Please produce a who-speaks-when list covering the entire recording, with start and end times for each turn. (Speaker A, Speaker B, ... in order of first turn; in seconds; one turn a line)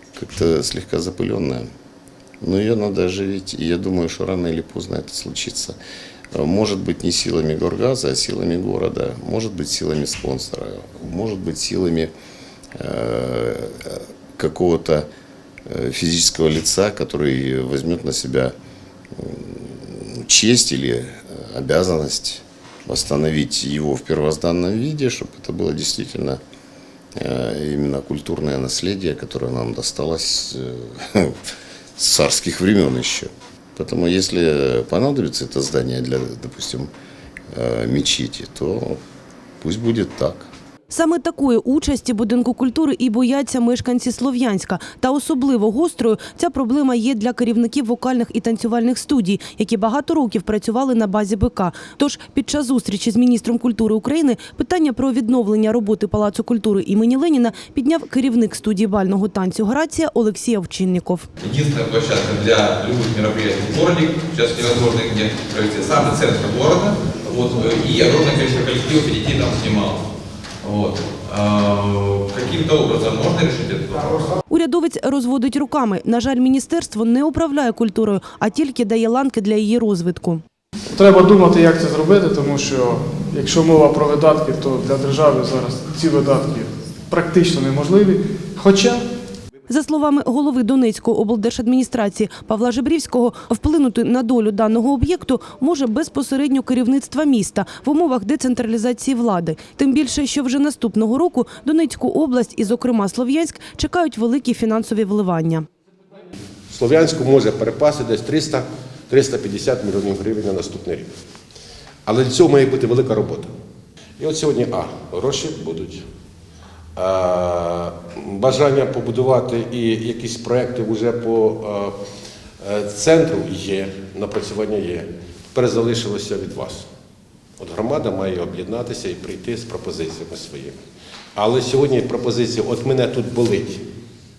Speaker A: 0.1-1.7
Speaker A: 2.4-5.8
Speaker A: 6.3-12.1
Speaker A: 12.8-15.1
Speaker A: 15.7-18.5
Speaker A: 19.1-26.4
Speaker A: 27.1-31.4
Speaker A: 32.0-36.9
Speaker A: 37.5-39.0
Speaker A: 39.6-40.5
Speaker B: 40.9-61.3
Speaker C: 61.4-70.0
Speaker C: 70.6-74.3
Speaker B: 74.5-80.4
Speaker D: 80.9-89.0
Speaker B: 89.7-105.7
Speaker E: 106.7-111.1
Speaker E: 112.0-113.5
Speaker E: 114.2-116.0
Speaker E: 117.0-122.0
Speaker E: 122.6-126.9
Speaker E: 127.6-130.8
Speaker E: 131.3-133.8